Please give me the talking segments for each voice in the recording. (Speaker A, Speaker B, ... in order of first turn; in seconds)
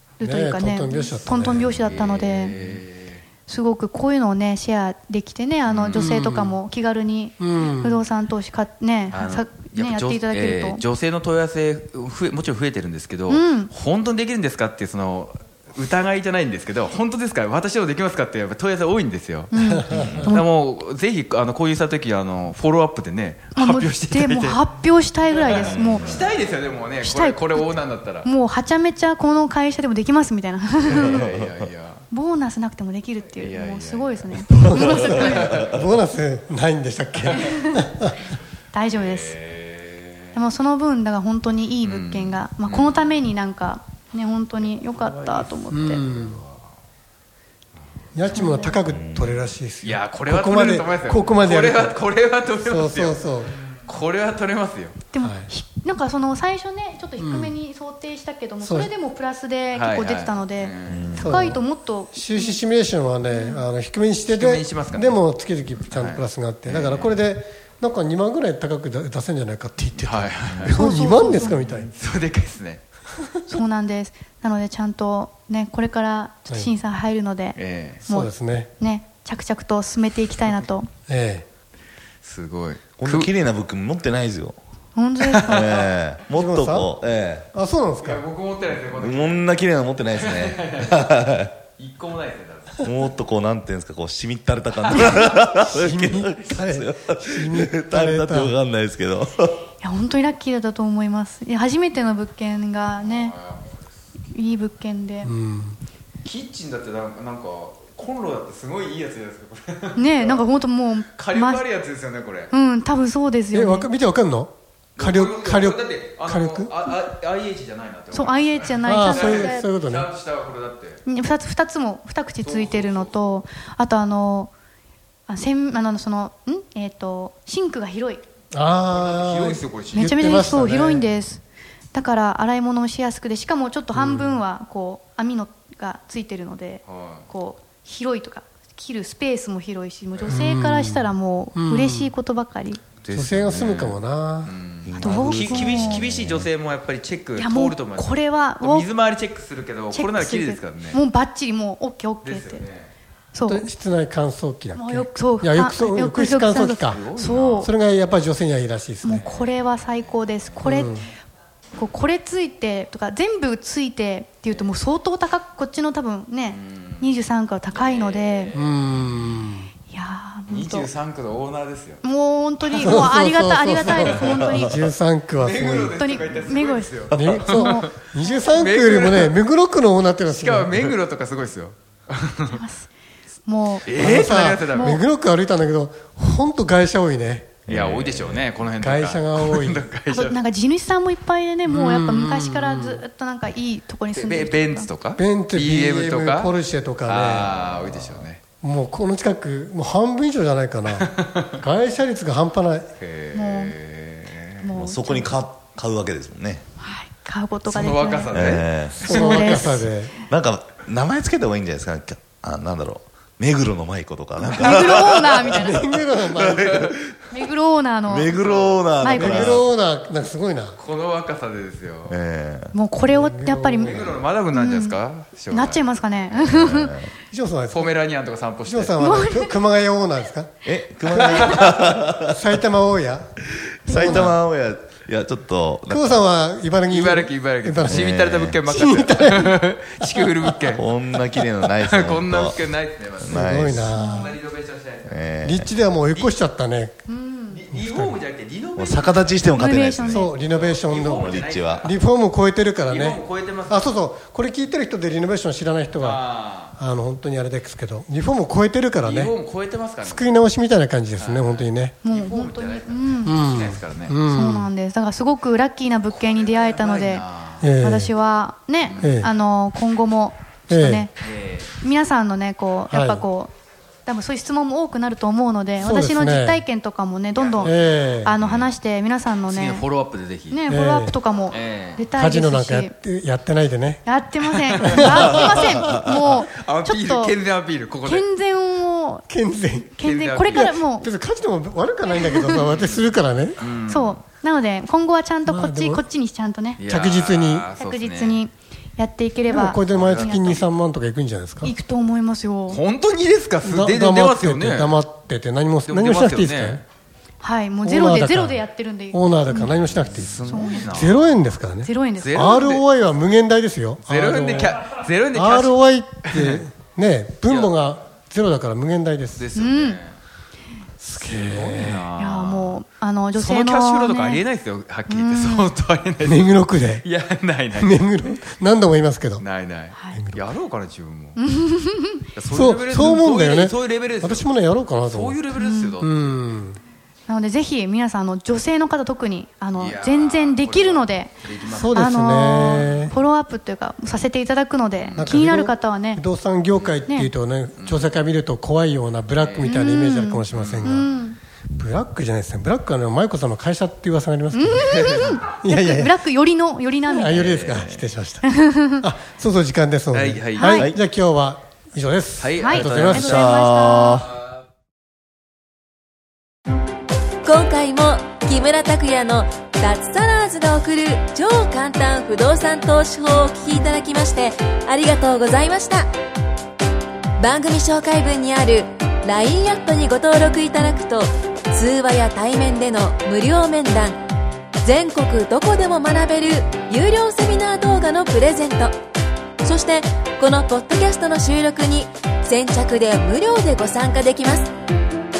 Speaker A: 0.2-2.6, 3.5-10.8, 13.3-13.7, 19.5-20.5, 23.5-26.1, 27.0-31.3, 32.1-35.4, 37.3-37.9, 38.7-39.4, 40.3-46.0, 48.3-48.8, 55.1-62.6, 63.3-63.6, 70.7-71.6, 73.5-80.9, 85.0-85.9, 99.8-103.3, 104.3-105.3, 110.0-111.7, 112.5-113.9, 118.1-119.7, 121.1-124.5, 125.3-128.2, 129.9-131.4, 131.9-142.8, 145.0-146.1, 147.4-148.9, 149.9-152.7, 153.3-153.7, 154.7-157.7, 159.0-161.0, 161.8-168.6, 169.9-170.9, 172.0-174.9, 175.8-178.0, 182.5-182.9, 183.5-185.0, 190.1-194.9, 203.3-203.8, 204.6-205.4, 206.8-208.4, 209.0-209.9, 214.4-215.8, 217.3-218.4, 219.0-219.6, 222.7-227.1, 229.0-229.6, 231.2-231.7, 233.9-234.3, 243.9-244.3, 247.1-247.6, 249.6-250.3, 262.0-263.6, 264.3-271.1, 271.8-273.5, 274.1-279.9, 280.5-282.9, 284.1-287.4, 288.0-289.3, 290.0-291.1, 292.1-292.8, 293.9-296.8, 297.8-300.6, 301.6-302.8, 307.4-309.8, 310.5-311.1, 311.8-312.6, 319.6-320.0, 322.2-324.4, 325.1-325.7, 329.9-330.2, 331.4-332.3, 335.6-335.9, 337.3-341.4, 341.9-346.2, 349.6-351.4, 354.5-357.4, 358.4-359.1, 360.6-360.9, 362.6-364.3
Speaker B: 0.2-1.8, 5.9-6.6, 7.4-8.0, 19.6-20.1, 34.5-38.2, 45.7-46.4, 48.1-52.0, 52.6-53.6, 55.2-55.5, 57.2-57.5, 58.6-58.9, 61.2-71.9, 78.1-78.7, 81.1-81.5, 86.3-87.0, 87.5-88.2, 95.5-98.6, 105.2-105.8, 113.5-116.8, 118.9-120.1, 128.5-131.1, 133.9-134.4, 140.3-142.1, 143.1-144.5, 153.5-157.0, 157.6-159.3, 160.6-161.1, 168.5-169.7, 172.8-176.0, 177.1-180.9, 183.9-187.7, 188.6-189.9, 191.7-193.0, 195.2-198.1, 198.6-202.9, 209.0-210.2, 215.4-216.9, 219.2-220.8, 223.1-224.2, 227.3-227.9, 228.6-230.5, 231.1-233.3, 233.9-234.4, 235.9-238.1, 238.7-240.5, 243.3-244.2, 245.4-247.0, 247.7-248.2, 250.0-259.4, 260.0-262.0, 263.2-264.7, 267.6-268.1, 269.0-269.3, 270.7-271.1, 272.9-273.3, 275.8-276.6, 277.6-278.3, 280.7-281.2, 282.2-284.1, 284.8-286.0, 289.3-293.6, 295.5-296.0, 296.9-297.7, 299.5-301.7, 303.6-306.8, 307.8-319.5, 321.0-322.1, 326.2-327.1, 327.7-329.4, 330.1-330.4, 332.5-335.4, 336.0-336.8, 341.7-343.1, 345.2-351.1, 351.8-356.2, 357.1-363.5
Speaker C: 1.6-3.2, 5.7-6.1, 9.1-19.5, 20.3-24.6, 25.3-28.3, 30.9-32.0, 33.4-35.8, 38.9-40.4, 41.8-43.1, 45.7-46.6, 48.1-48.5, 49.8-55.0, 59.7-61.4, 64.3-65.2, 65.8-67.2, 70.0-70.8, 71.3-72.8, 77.5-78.0, 82.2-83.3, 85.2-85.7, 88.0-93.0, 103.0-103.9, 106.2-110.5, 111.1-112.5, 115.0-121.0, 122.4-123.1, 128.9-130.5, 136.9-137.3, 140.1-140.4, 143.0-151.0, 152.2-152.9, 156.8-157.7, 159.1-159.5, 166.5-167.1, 167.7-168.7, 170.5-172.0, 173.8-174.5, 175.4-177.9, 178.4-179.3, 180.3-182.6, 183.8-185.0, 187.7-190.4, 194.1-196.5, 197.0-198.4, 200.9-201.4, 203.0-204.7, 207.7-209.5, 218.3-218.8, 220.8-222.2, 223.8-225.8, 227.7-229.0, 236.9-245.2, 247.5-249.5, 250.3-251.9, 252.9-253.9, 256.0-256.8, 259.0-260.4, 261.2-264.2, 266.2-267.7, 268.8-269.2, 271.2-271.8, 277.4-278.7, 279.5-280.6, 281.5-282.0, 284.4-288.3, 290.0-290.8, 292.8-294.2, 296.8-298.5, 299.7-300.7, 302.7-305.0, 305.9-306.9, 309.7-311.4, 312.2-312.9, 314.1-316.6, 317.5-317.7, 319.4-320.2, 321.2-322.8, 323.3-328.4, 329.4-331.4, 332.3-334.5, 335.1-336.3, 339.8-342.1, 345.0-345.4, 346.7-347.0, 347.8-348.2, 349.4-349.9, 350.5-351.3, 354.8-355.4, 357.2-358.1, 360.1-360.8, 362.4-363.6
Speaker D: 19.9-20.3, 25.6-26.2, 48.9-49.5, 60.9-61.3, 83.0-84.6, 85.5-87.5, 88.8-91.5, 92.8-99.6, 144.8-146.5, 187.7-188.4, 204.8-206.7, 208.3-209.6, 210.2-217.4, 218.1-219.7, 222.1-222.7, 226.3-227.1, 230.7-232.4, 233.8-236.2, 237.9-238.7, 240.7-242.6, 243.2-243.9, 245.1-245.7, 248.8-250.3, 251.1-251.9, 363.1-364.3
Speaker E: 367.4-376.1, 377.4-384.2, 384.8-389.0, 389.6-394.7